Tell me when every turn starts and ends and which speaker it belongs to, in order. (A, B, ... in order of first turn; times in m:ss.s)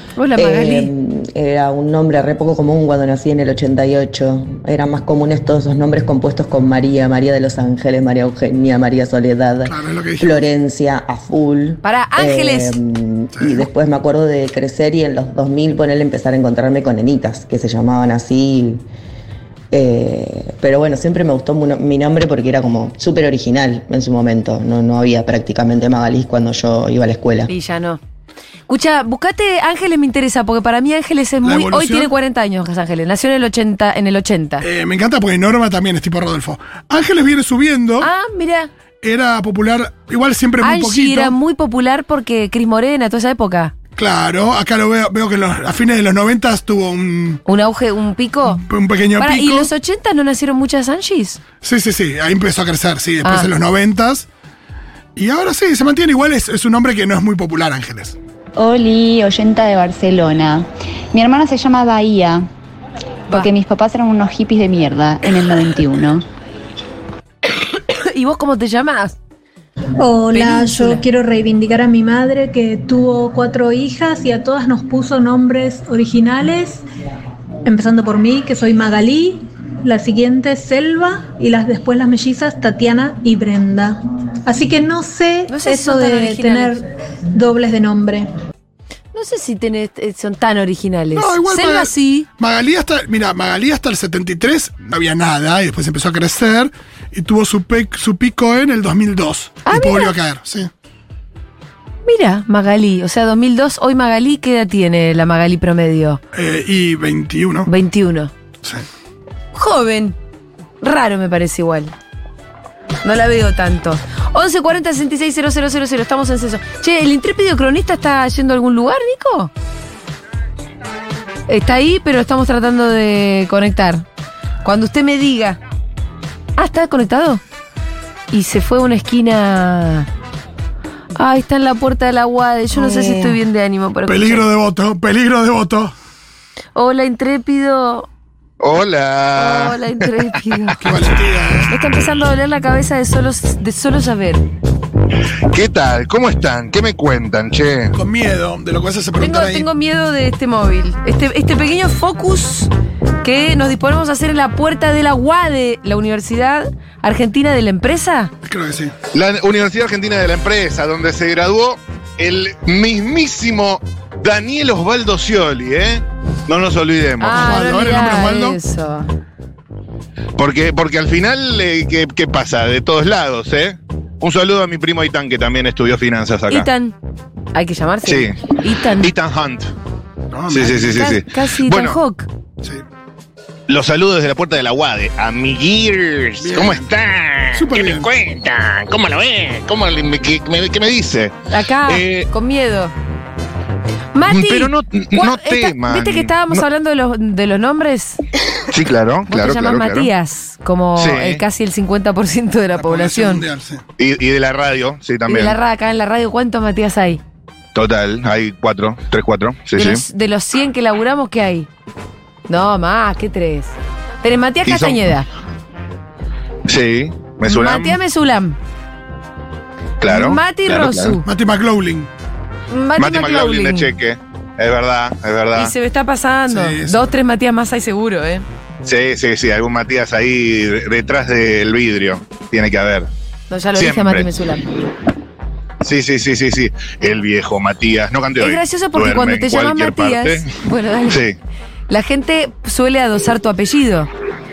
0:00.2-0:00.9 A
0:00.3-0:18.8 B
0:09.6-0:10.4 C
0:11.8-0:12.8 A
0:13.4-0:13.6 C
0:19.7-0:27.5 B
0:27.5-0:28.0 A
0:28.7-0:34.6 A
0:31.4-0:32.1 C
0:34.6-0:38.1 C
0:38.0-0:38.7 A
0:39.0-0:41.3 C
0:40.6-0:43.7 A
0:44.0-0:47.4 C
0:47.4-0:48.6 A
0:48.4-0:49.7 C
0:49.2-0:51.4 A
0:51.6-0:54.3 C
0:53.2-0:53.5 A
0:55.2-0:58.2 C
0:58.6-1:02.5 D
1:03.3-1:06.2 D
1:07.9-1:09.2 A
1:10.0-1:16.8 E
1:10.3-1:11.0 A
1:17.6-1:28.3 E
1:25.5-1:26.8 A
1:29.1-1:32.3 A
1:31.1-1:40.7 C
1:39.6-1:40.1 A
1:42.0-1:46.2 A
1:46.3-1:47.7 C
1:47.6-1:48.3 A
1:49.5-1:50.2 A
1:50.8-1:51.9 A
1:53.0-1:59.5 A
2:01.5-2:04.0 A
2:04.6-2:05.6 A
2:06.6-2:07.4 A
2:08.3-2:10.1 A
2:11.2-2:14.4 A
2:12.7-2:13.4 C
2:14.1-2:15.9 C
2:16.7-2:18.1 A
2:18.6-2:20.0 F
2:19.3-2:20.9 A
2:20.8-2:21.7 C
2:21.7-2:24.4 A
2:25.5-2:28.0 F
2:28.0-2:29.7 C
2:29.2-2:32.7 A
2:33.2-2:38.3 A
2:38.4-2:38.9 C
2:39.1-2:47.6 F
2:47.2-2:49.1 A
2:47.3-2:48.6 C
2:50.4-2:56.7 F
2:56.5-2:56.9 A
2:57.5-2:59.1 A
2:58.0-2:58.4 F
2:59.0-2:59.7 F
3:00.3-3:01.0 C
3:00.5-3:02.0 F
3:00.8-3:02.3 A
3:03.7-3:12.3 F
3:06.4-3:06.9 C
3:07.5-3:08.1 C
3:11.5-3:12.9 A
3:14.1-3:18.2 A
3:14.3-3:16.6 F
3:18.7-3:20.1 F
3:19.3-3:23.4 A
3:21.0-3:21.4 F
3:22.7-3:23.8 C
3:24.0-3:25.6 F
3:25.3-3:27.2 A
3:27.7-3:30.0 F
3:29.7-3:31.7 A
3:32.5-3:35.3 A
3:34.6-3:35.1 F
3:36.7-3:38.0 F
3:37.4-3:38.6 A
3:40.0-3:41.2 F
3:40.0-3:41.2 A
3:41.2-3:42.1 C
3:42.7-3:43.9 A
3:43.0-3:45.7 F
3:45.5-3:48.4 A
3:46.5-3:47.1 C
3:48.8-3:53.1 F
3:53.5-3:54.7 A
3:53.8-3:54.3 F
3:55.8-4:00.5 F
3:58.4-4:01.2 A
4:01.0-4:01.3 F
4:01.9-4:04.1 A